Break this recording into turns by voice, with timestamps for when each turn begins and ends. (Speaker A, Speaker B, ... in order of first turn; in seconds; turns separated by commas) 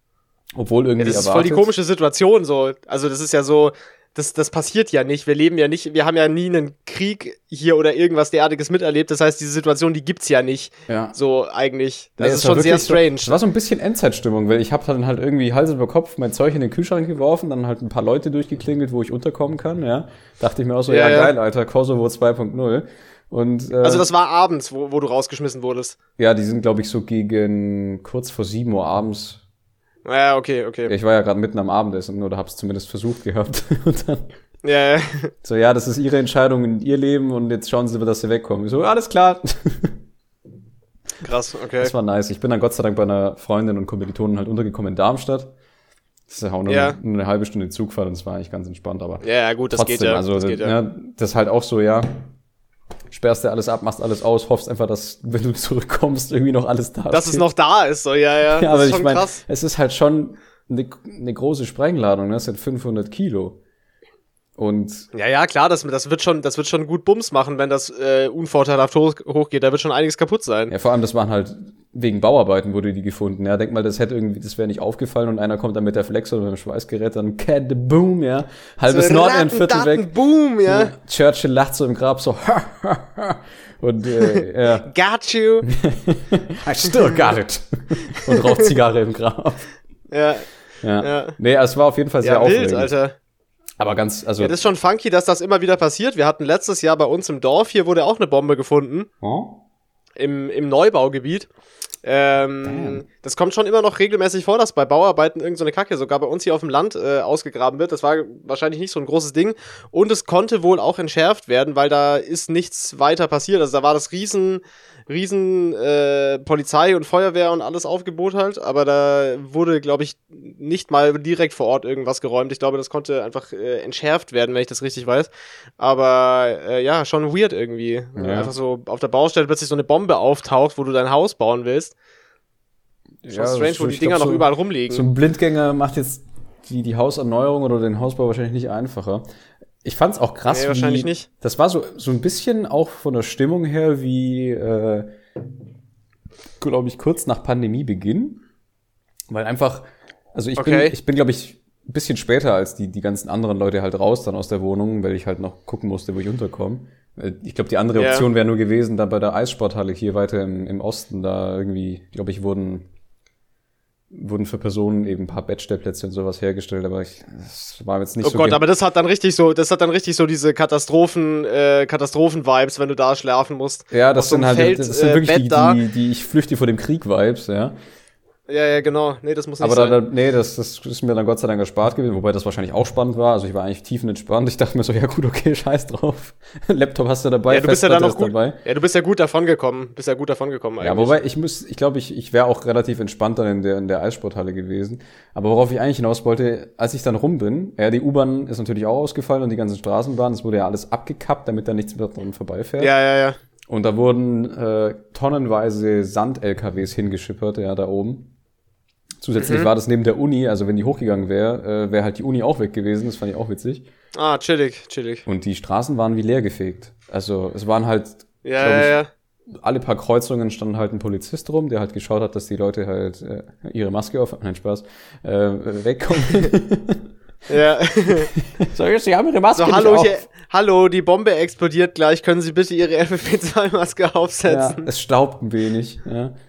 Speaker A: 0.5-1.7, Speaker B: 1.0-13.4, Speaker A: 10.9-11.2, Speaker A: 12.2-24.1, Speaker B: 20.9-21.3, Speaker B: 23.8-25.9, Speaker A: 26.2-29.4, Speaker B: 30.0-30.9, Speaker A: 30.9-34.3, Speaker B: 34.6-35.3, Speaker A: 35.4-40.0, Speaker B: 41.2-41.9, Speaker A: 41.8-45.5, Speaker A: 46.3-52.3, Speaker B: 46.7-47.0, Speaker B: 49.2-50.7, Speaker A: 53.1-57.4, Speaker B: 57.1-59.4, Speaker A: 58.5-63.6, Speaker A: 64.6-65.1, Speaker B: 65.1-70.7, Speaker A: 70.7-80.1, Speaker B: 78.9-80.9, Speaker A: 80.6-84.9, Speaker B: 84.2-85.7, Speaker A: 85.7-89.7, Speaker B: 90.1-90.5, Speaker A: 90.8-92.9, Speaker B: 91.0-91.3, Speaker B: 92.2-93.1, Speaker A: 93.8-94.5, Speaker B: 94.4-99.1, Speaker A: 99.2-99.6, Speaker B: 100.2-101.5, Speaker B: 102.0-131.9, Speaker A: 102.7-103.0, Speaker A: 128.2-128.5, Speaker A: 133.2-139.2, Speaker B: 133.3-135.1, Speaker A: 139.8-145.1, Speaker B: 140.5-141.3, Speaker A: 146.6-148.4, Speaker A: 149.3-162.9, Speaker B: 150.6-150.9, Speaker B: 157.9-158.2, Speaker A: 164.1-168.6, Speaker B: 168.2-175.8, Speaker A: 173.9-177.8, Speaker B: 178.5-180.0, Speaker A: 179.6-188.6, Speaker B: 187.5-191.2, Speaker A: 190.8-202.9, Speaker B: 202.8-203.4, Speaker A: 203.7-208.3, Speaker A: 209.2-213.8, Speaker B: 209.4-209.7, Speaker B: 214.1-215.2, Speaker A: 215.2-219.0, Speaker B: 218.4-219.1, Speaker A: 219.5-227.0, Speaker B: 227.5-228.3, Speaker A: 228.3-230.2, Speaker B: 229.5-234.9, Speaker A: 234.5-236.3